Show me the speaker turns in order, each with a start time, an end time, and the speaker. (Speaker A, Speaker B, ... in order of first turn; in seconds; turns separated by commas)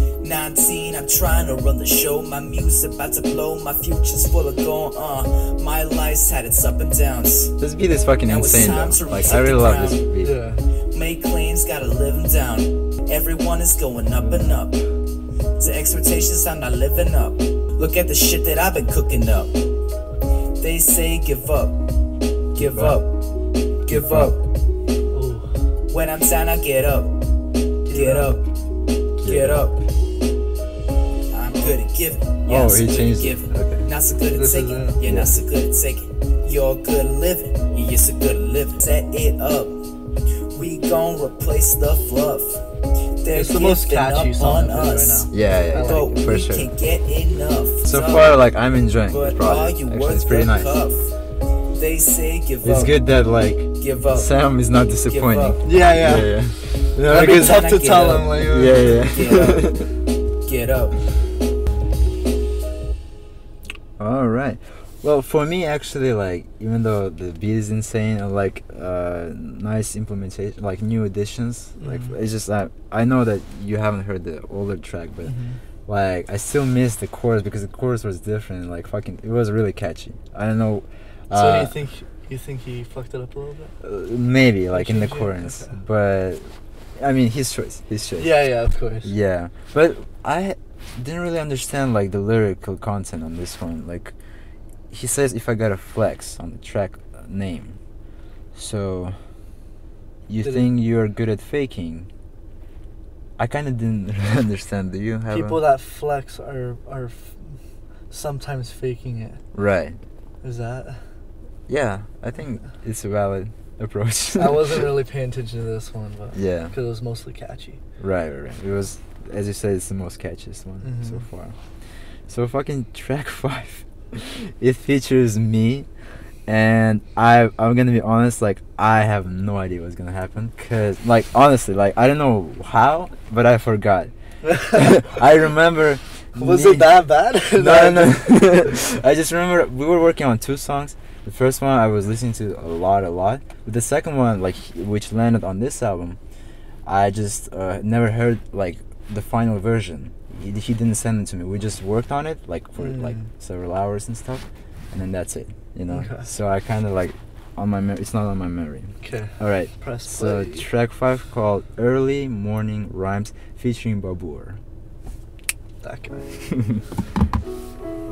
Speaker A: 0.2-7.6, Speaker B: 7.6-10.4, Speaker A: 8.2-10.0, Speaker C: 10.2-10.6, Speaker A: 10.9-14.8, Speaker B: 14.2-14.6, Speaker A: 15.6-19.6, Speaker A: 20.6-21.8, Speaker A: 22.5-23.1, Speaker B: 22.6-23.0, Speaker A: 23.9-24.5, Speaker B: 23.9-24.3, Speaker C: 25.1-25.6, Speaker A: 25.9-27.1, Speaker C: 27.9-28.4, Speaker A: 27.9-28.4, Speaker A: 29.2-29.8, Speaker B: 29.2-29.6, Speaker A: 31.3-39.8, Speaker B: 32.5-33.9, Speaker C: 34.3-35.0, Speaker B: 35.0-35.3, Speaker A: 40.5-42.6, Speaker A: 43.2-48.4, Speaker C: 43.3-46.1, Speaker B: 45.3-46.7, Speaker B: 47.8-50.7, Speaker A: 49.1-51.1, Speaker A: 51.7-53.0, Speaker B: 52.6-57.7, Speaker A: 53.8-54.3, Speaker A: 55.0-55.7, Speaker C: 55.6-59.1, Speaker A: 57.1-59.9, Speaker B: 58.4-59.9, Speaker A: 60.4-61.0, Speaker B: 64.0-81.8, Speaker C: 71.8-72.2, Speaker C: 75.2-75.6, Speaker C: 81.3-83.7, Speaker B: 83.8-88.5, Speaker C: 84.7-85.8, Speaker C: 88.2-89.1, Speaker B: 89.0-94.2, Speaker B: 94.9-97.8, Speaker B: 98.5-99.3, Speaker B: 100.3-102.1, Speaker C: 100.4-100.7, Speaker B: 103.4-105.6, Speaker C: 105.3-107.6, Speaker C: 108.1-109.4, Speaker B: 109.5-110.0, Speaker C: 110.4-111.0, Speaker B: 111.7-114.9, Speaker C: 114.4-117.8, Speaker B: 116.3-116.7, Speaker B: 118.0-121.6, Speaker C: 120.8-121.3, Speaker B: 122.2-125.9, Speaker B: 126.5-136.9, Speaker C: 134.4-135.0, Speaker C: 136.3-138.3, Speaker B: 137.5-146.2, Speaker B: 146.8-164.6, Speaker C: 152.8-153.3, Speaker C: 155.9-156.3, Speaker C: 159.0-160.7, Speaker C: 165.8-166.3, Speaker B: 166.5-166.8